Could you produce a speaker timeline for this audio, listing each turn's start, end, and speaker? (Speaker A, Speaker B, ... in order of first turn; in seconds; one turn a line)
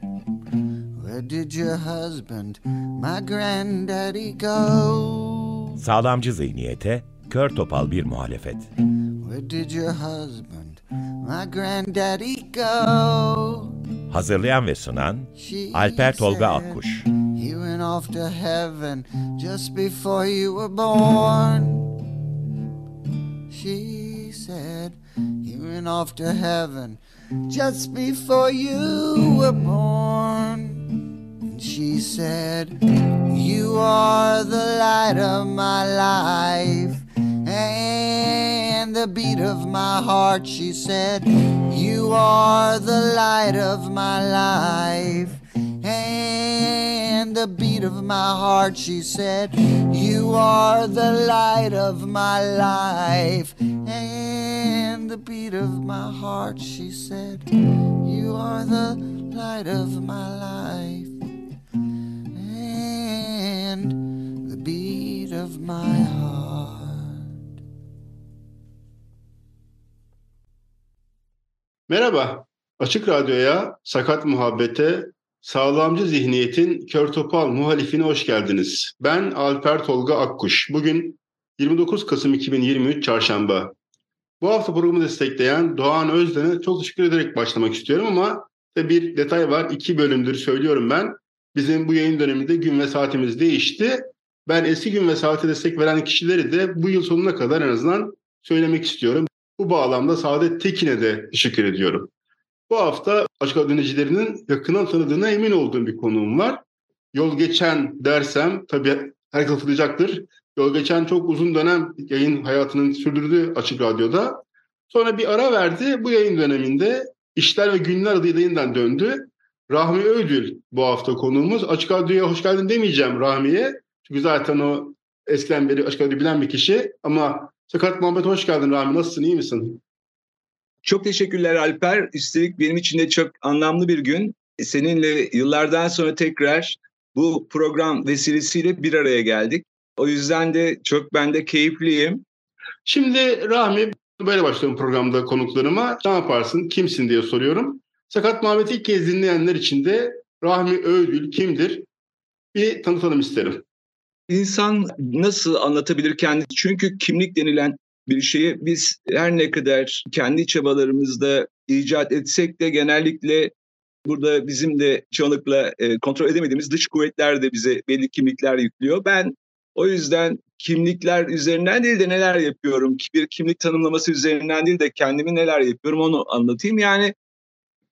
Speaker A: 1.0-5.8
Speaker B: 5.8-8.7
Speaker A: 9.2-13.8
Speaker B: 14.1-17.0
Speaker A: 15.3-21.9
Speaker A: 23.5-30.9
Speaker A: 31.5-32.8
Speaker A: 33.3-61.1
Speaker A: 62.3-67.2
Speaker C: 71.9-83.7
Speaker C: 84.4-102.1
Speaker C: 102.7-106.6
Speaker C: 107.1-129.8
Speaker D: 130.8-142.2
Speaker C: 142.9-151.9
Speaker C: 152.5-153.6
Speaker D: 154.3-163.5
Speaker D: 164.1-177.1